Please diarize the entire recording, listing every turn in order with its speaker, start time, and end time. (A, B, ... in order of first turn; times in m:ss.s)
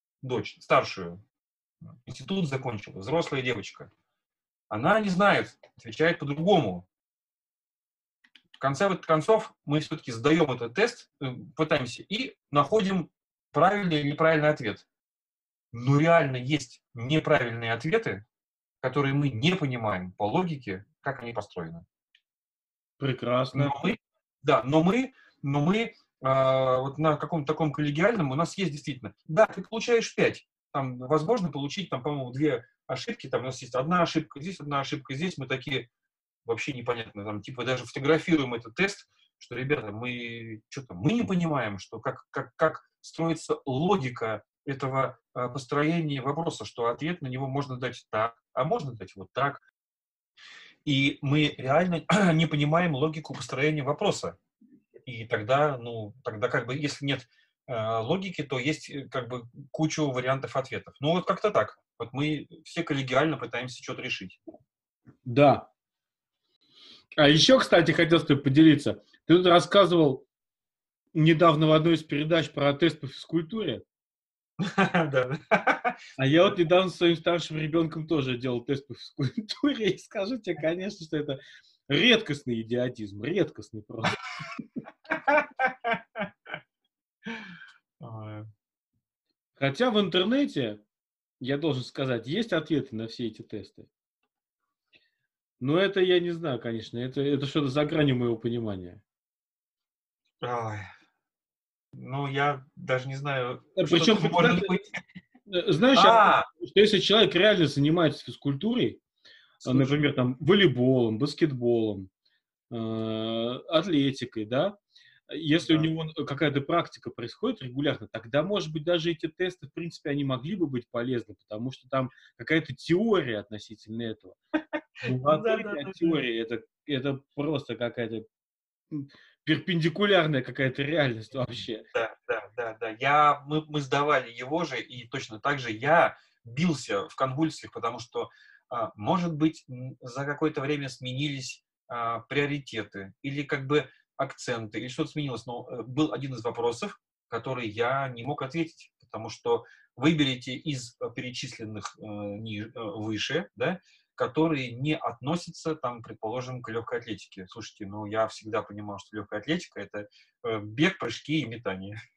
0:00.2-0:01.2 A
0:01.8-0:03.9 A
0:04.7-0:06.8 A
0:08.6-0:14.8 A
0:15.7-0:18.2 A
0:18.8-0:21.8 A
0:23.0-0:23.8 B
0:23.5-0:35.9 A
0:36.4-0:49.6 A
0:50.8-0:54.4 A
0:55.0-1:04.4 A
1:05.2-1:05.7 B
1:07.2-1:10.2 B
1:11.1-1:13.8 B
1:14.6-1:16.0 A
1:16.2-1:24.2 B
1:25.1-1:26.3 A
1:28.0-1:28.5 A
1:29.6-1:30.8 B
1:31.4-1:33.9 B
1:35.6-1:39.0 B
1:40.4-1:40.8 A
1:41.9-1:44.8 A
1:43.8-1:44.8 B
1:45.5-1:49.0 B
1:45.9-1:46.5 A
1:49.6-1:50.1 A
1:49.6-1:52.1 B
1:52.7-2:04.4 B
1:55.6-1:55.9 A
2:05.0-2:06.2 A
2:05.0-2:08.2 B
2:08.9-2:11.9 B
2:11.9-2:41.9 A